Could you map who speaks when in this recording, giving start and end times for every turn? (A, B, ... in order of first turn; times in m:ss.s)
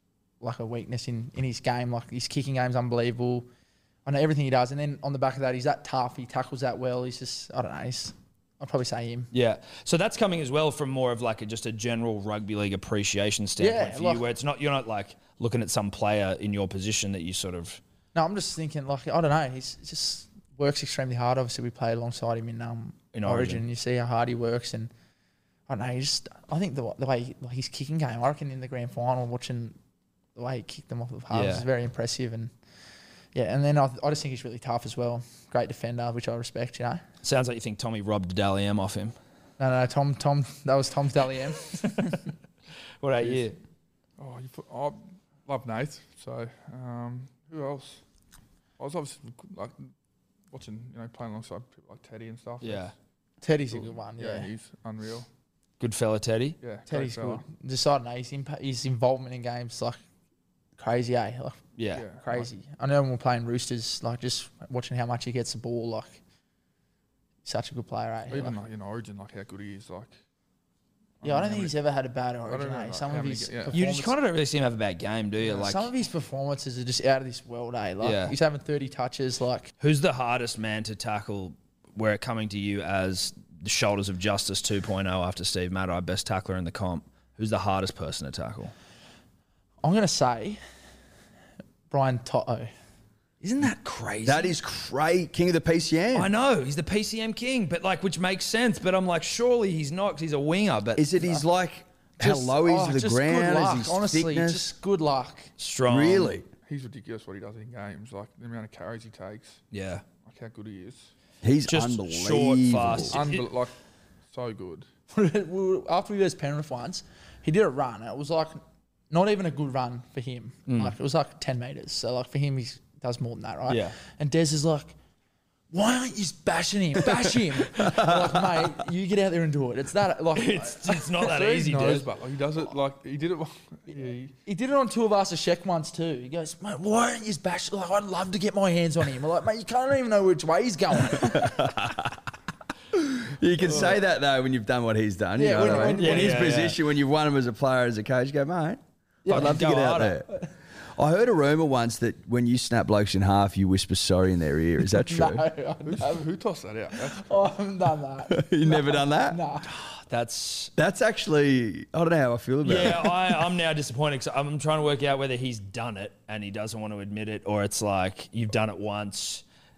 0:00.4-0:03.5 A
0:04.0-0:09.3 A
0:09.3-0:17.8 B
0:13.6-0:14.2 A
0:18.1-0:24.9 A
0:23.1-0:23.6 B
0:25.7-0:29.8 A
0:30.4-0:32.5 A
0:31.3-0:31.7 B
0:33.3-0:37.0 A
0:37.2-0:39.2 B
0:39.6-0:42.2 A
0:43.0-0:43.6 B
0:43.2-0:43.5 C
0:44.2-0:48.0 C
0:48.8-0:49.9 C
0:50.5-0:52.9 C
0:52.6-0:52.9 B
0:53.4-0:54.5 A
0:53.7-0:55.3 C
0:55.8-0:56.6 B
0:56.6-0:57.4 C
0:56.9-1:00.0 A
1:00.8-1:01.6 A
1:01.8-1:02.0 B
1:01.9-1:02.5 C
1:02.2-1:06.2 A
1:07.4-1:08.6 A
1:08.3-1:10.1 C
1:11.2-1:11.7 C
1:11.2-1:14.2 A
1:12.5-1:13.8 C
1:13.7-1:15.9 B
1:15.5-1:19.7 A
1:18.0-1:18.4 B
1:19.8-1:28.7 B
1:29.8-1:30.6 A
1:31.9-1:32.7 A
1:33.4-1:34.6 B
1:34.2-1:36.3 D
1:36.1-1:41.2 B
1:41.0-1:44.7 D
1:42.2-1:45.5 A
1:45.6-1:46.3 B
1:45.9-1:46.5 D
1:46.7-1:49.6 C
1:49.7-1:50.0 B
1:50.2-1:51.1 C
1:51.4-1:53.2 D
1:51.7-1:53.5 B
1:53.1-1:53.7 C
1:54.3-1:54.9 C
1:55.1-2:04.9 A
2:00.7-2:00.9 B
2:03.7-2:04.0 B
2:05.7-2:12.0 A
2:10.3-2:12.1 B
2:11.4-2:14.3 C
2:14.4-2:21.6 A
2:21.1-2:22.2 D
2:22.9-2:30.3 D
2:23.7-2:24.0 C
2:25.4-2:26.5 A
2:25.6-2:26.2 C
2:26.0-2:26.8 B
2:29.2-2:29.7 A
2:29.3-2:30.2 B
2:30.2-2:30.5 A
2:31.0-2:35.5 D
2:35.0-2:36.3 A
2:35.8-2:37.6 C
2:37.0-2:39.7 A
2:38.3-2:39.4 D
2:39.7-2:40.7 B
2:40.8-2:43.5 D
2:42.6-2:49.4 B